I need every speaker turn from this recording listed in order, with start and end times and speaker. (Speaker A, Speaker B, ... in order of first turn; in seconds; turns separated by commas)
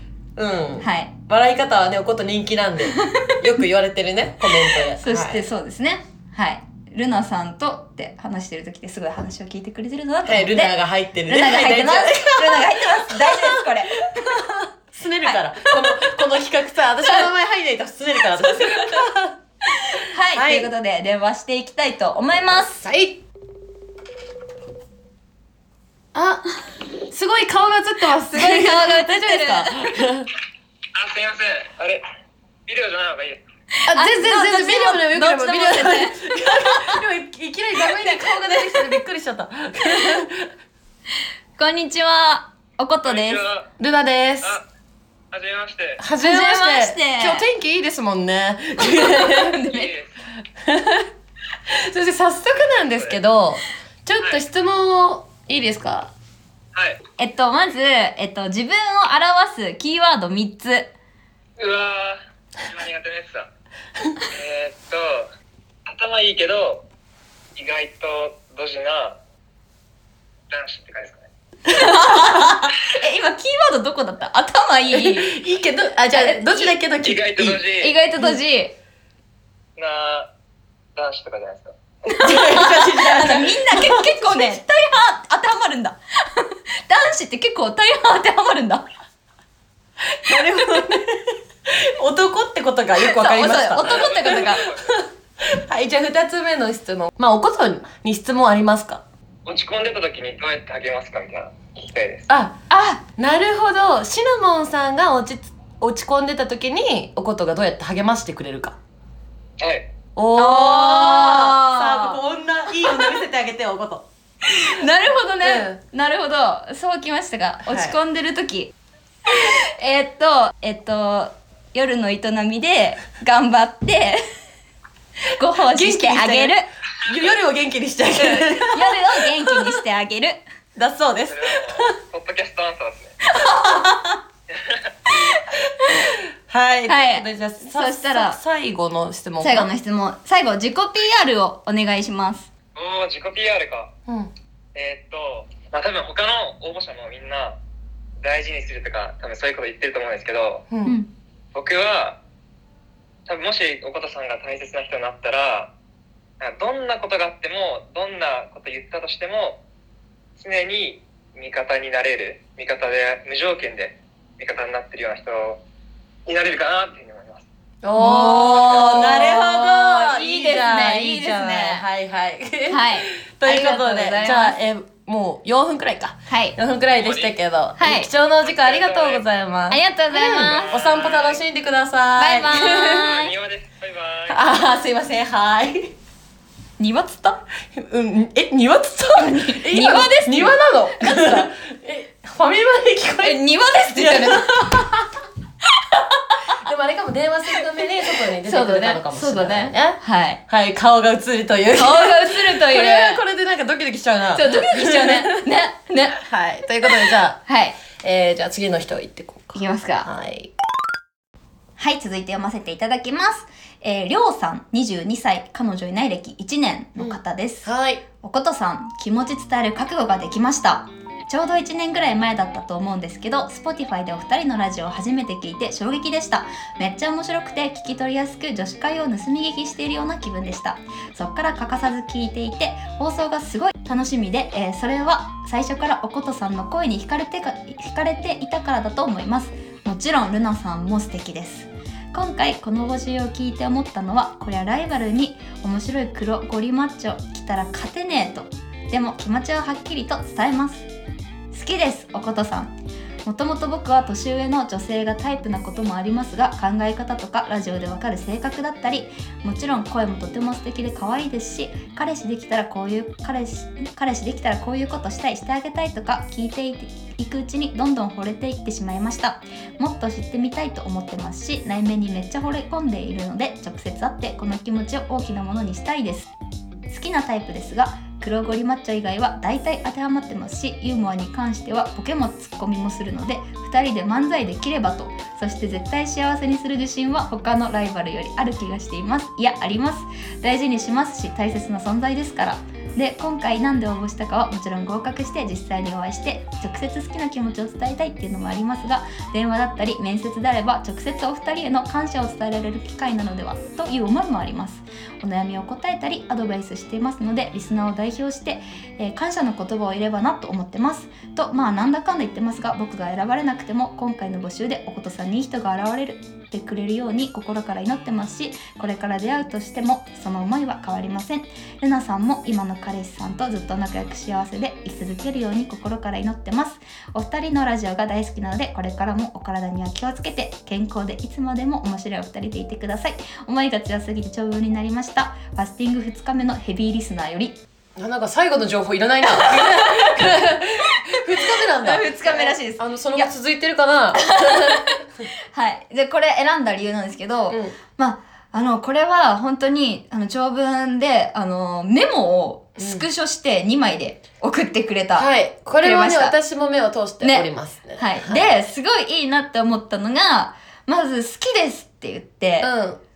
Speaker A: 0.4-5.4, Speaker B: 0.8-1.1, Speaker B: 5.0-10.8, Speaker A: 10.3-13.6, Speaker B: 11.3-14.3, Speaker A: 14.2-19.4, Speaker B: 15.2-16.1, Speaker B: 19.8-22.9, Speaker A: 20.4-20.7, Speaker A: 22.8-23.2, Speaker A: 26.1-26.4, Speaker A: 27.1-30.3, Speaker B: 28.3-29.7, Speaker C: 30.9-32.0, Speaker C: 32.7-33.4, Speaker B: 33.8-37.0, Speaker A: 33.9-40.5, Speaker B: 38.0-39.0, Speaker B: 41.6-43.5, Speaker C: 43.0-43.7, Speaker A: 43.8-44.6, Speaker C: 45.3-46.0, Speaker A: 46.0-49.5, Speaker B: 46.2-47.5, Speaker B: 48.8-49.9, Speaker C: 49.7-50.2, Speaker A: 50.6-51.1, Speaker A: 51.7-56.1, Speaker C: 53.0-53.2, Speaker B: 57.2-60.9, Speaker C: 61.6-63.5, Speaker C: 64.3-65.3, Speaker C: 65.9-66.8, Speaker C: 67.6-69.2, Speaker C: 70.5-71.2, Speaker B: 71.7-75.3, Speaker A: 74.9-77.7, Speaker B: 76.1-76.8, Speaker C: 77.0-78.0, Speaker B: 77.8-78.7, Speaker C: 79.8-80.3, Speaker C: 81.0-81.8, Speaker B: 82.1-88.9, Speaker A: 82.2-84.5, Speaker A: 90.3-99.0, Speaker B: 93.0-94.7, Speaker C: 93.8-94.9, Speaker C: 99.5-102.3, Speaker A: 102.3-102.6, Speaker B: 102.7-103.0, Speaker A: 103.2-108.8, Speaker C: 109.6-109.9, Speaker A: 110.2-114.1, Speaker B: 110.4-112.2, Speaker B: 114.5-118.7, Speaker A: 115.4-115.8, Speaker A: 117.7-118.0, Speaker B: 119.3-124.2, Speaker B: 125.4-126.7, Speaker A: 125.7-129.0, Speaker B: 128.2-130.4, Speaker A: 130.8-131.9, Speaker C: 131.3-133.2, Speaker B: 133.4-134.2, Speaker C: 134.5-134.9, Speaker A: 136.5-139.7, Speaker B: 136.9-138.4, Speaker B: 139.4-142.5, Speaker C: 142.8-143.9, Speaker A: 144.1-144.3, Speaker C: 144.7-147.6, Speaker C: 148.2-150.7, Speaker A: 150.7-150.9, Speaker B: 150.8-151.1, Speaker C: 151.5-152.2, Speaker C: 153.3-155.7, Speaker C: 156.4-159.6, Speaker C: 160.4-165.6, Speaker C: 166.3-167.4, Speaker A: 167.8-183.1, Speaker B: 168.0-171.9, Speaker B: 172.7-174.6, Speaker B: 176.3-176.6, Speaker C: 177.0-177.4, Speaker B: 177.8-178.1, Speaker C: 178.4-179.3, Speaker B: 179.7-180.9, Speaker C: 180.3-181.4, Speaker B: 182.2-183.3, Speaker C: 183.0-184.4, Speaker A: 184.3-185.9, Speaker B: 186.8-187.4, Speaker A: 187.8-193.4, Speaker B: 189.2-191.5, Speaker B: 193.2-194.9, Speaker A: 193.9-195.1, Speaker B: 195.9-196.3, Speaker A: 196.6-205.3, Speaker B: 198.4-200.4, Speaker B: 201.7-203.2, Speaker B: 204.4-206.2, Speaker A: 206.2-207.4, Speaker B: 207.5-207.8, Speaker A: 208.0-210.5, Speaker B: 209.5-210.1, Speaker B: 211.8-217.7, Speaker A: 217.0-218.0, Speaker B: 218.2-250.9, Speaker B: 251.5-276.3, Speaker B: 276.9-337.6, Speaker A: 338.0-345.2, Speaker B: 339.4-340.3, Speaker B: 341.4-343.3, Speaker B: 344.1-345.0, Speaker B: 345.5-355.3, Speaker A: 347.5-347.8, Speaker A: 352.8-353.0, Speaker A: 355.2-358.4, Speaker B: 355.8-356.4, Speaker B: 357.2-362.7, Speaker A: 362.6-363.0